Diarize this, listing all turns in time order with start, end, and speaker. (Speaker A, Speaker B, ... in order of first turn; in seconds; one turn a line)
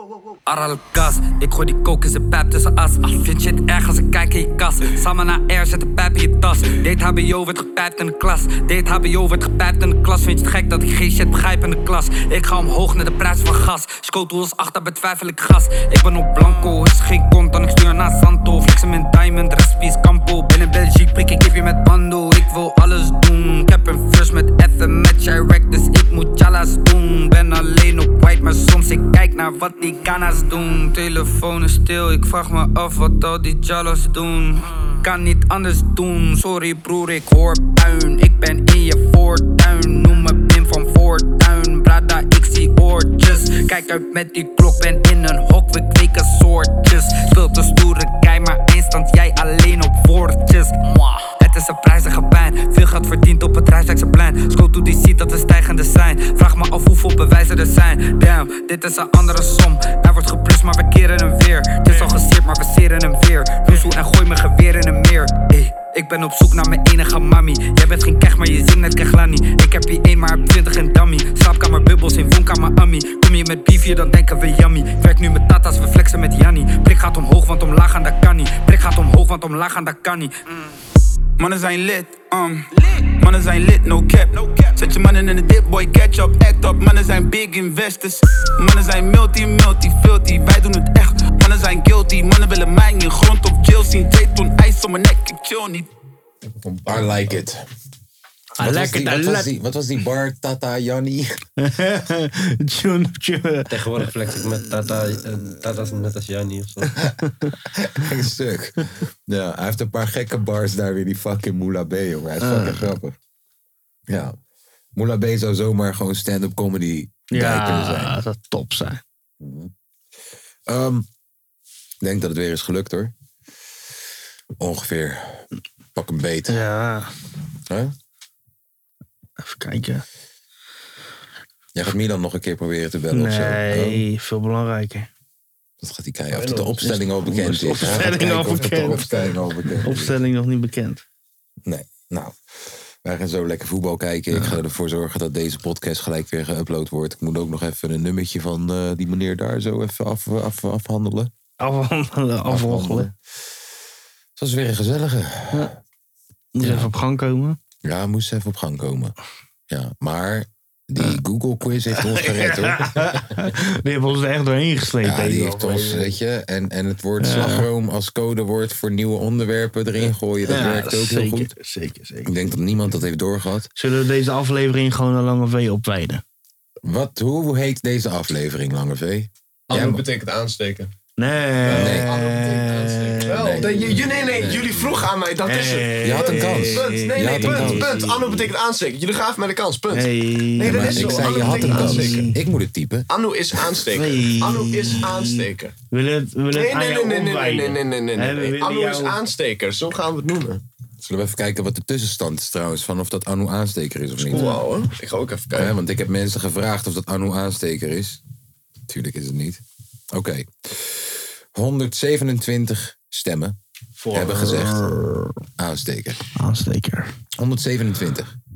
Speaker A: 0.5-80.8
Speaker B: 81.4-95.9
Speaker C: 96.6-97.2
Speaker D: 96.8-97.6
Speaker E: 98.6-99.5
Speaker D: 98.6-101.3
Speaker E: 101.6-104.7
Speaker F: 103.7-107.0
Speaker E: 106.9-107.5
Speaker D: 107.0-113.2
Speaker E: 112.4-113.0
Speaker D: 114.1-114.4
Speaker D: 115.0-118.2
Speaker E: 117.3-119.0
Speaker D: 119.4-119.7
Speaker D: 120.7-121.1
Speaker D: 122.0-123.1
Speaker D: 124.6-125.5
Speaker D: 126.0-126.6
Speaker E: 126.5-127.1
Speaker D: 127.7-127.9
Speaker E: 129.4-130.1
Speaker D: 131.8-134.0
Speaker E: 133.1-135.1
Speaker D: 135.8-140.2
Speaker C: 136.3-136.8
Speaker E: 136.8-139.1
Speaker C: 137.8-139.4
Speaker E: 139.8-141.0
Speaker D: 141.7-151.3
Speaker E: 144.3-144.6
Speaker E: 151.6-153.1
Speaker D: 152.5-153.1
Speaker D: 154.4-155.8
Speaker E: 156.6-157.6
Speaker D: 156.6-156.9
Speaker D: 157.8-159.2
Speaker D: 159.7-163.1
Speaker E: 161.9-166.1
Speaker D: 165.0-171.5
Speaker E: 167.2-167.7
Speaker E: 170.4-172.6
Speaker D: 172.2-173.7
Speaker E: 173.8-176.2
Speaker D: 176.8-180.0
Speaker C: 179.7-180.9
Speaker E: 181.2-184.1
Speaker C: 181.6-192.3
Speaker D: 181.7-182.3
Speaker D: 183.2-185.1
Speaker E: 185.4-188.3
Speaker D: 186.0-188.3
Speaker E: 189.9-192.4
Speaker D: 190.6-193.1
Speaker C: 193.1-195.8
Speaker E: 193.9-199.2
Speaker C: 196.5-200.6
Speaker D: 201.0-204.6
Speaker C: 204.2-205.8
Speaker E: 204.3-204.6
Speaker D: 205.5-208.2
Speaker D: 208.9-209.6
Speaker D: 210.1-213.6
Speaker E: 214.0-215.4
Speaker D: 214.1-214.8
Speaker D: 215.6-216.2
Speaker E: 216.4-217.1
Speaker D: 217.4-218.4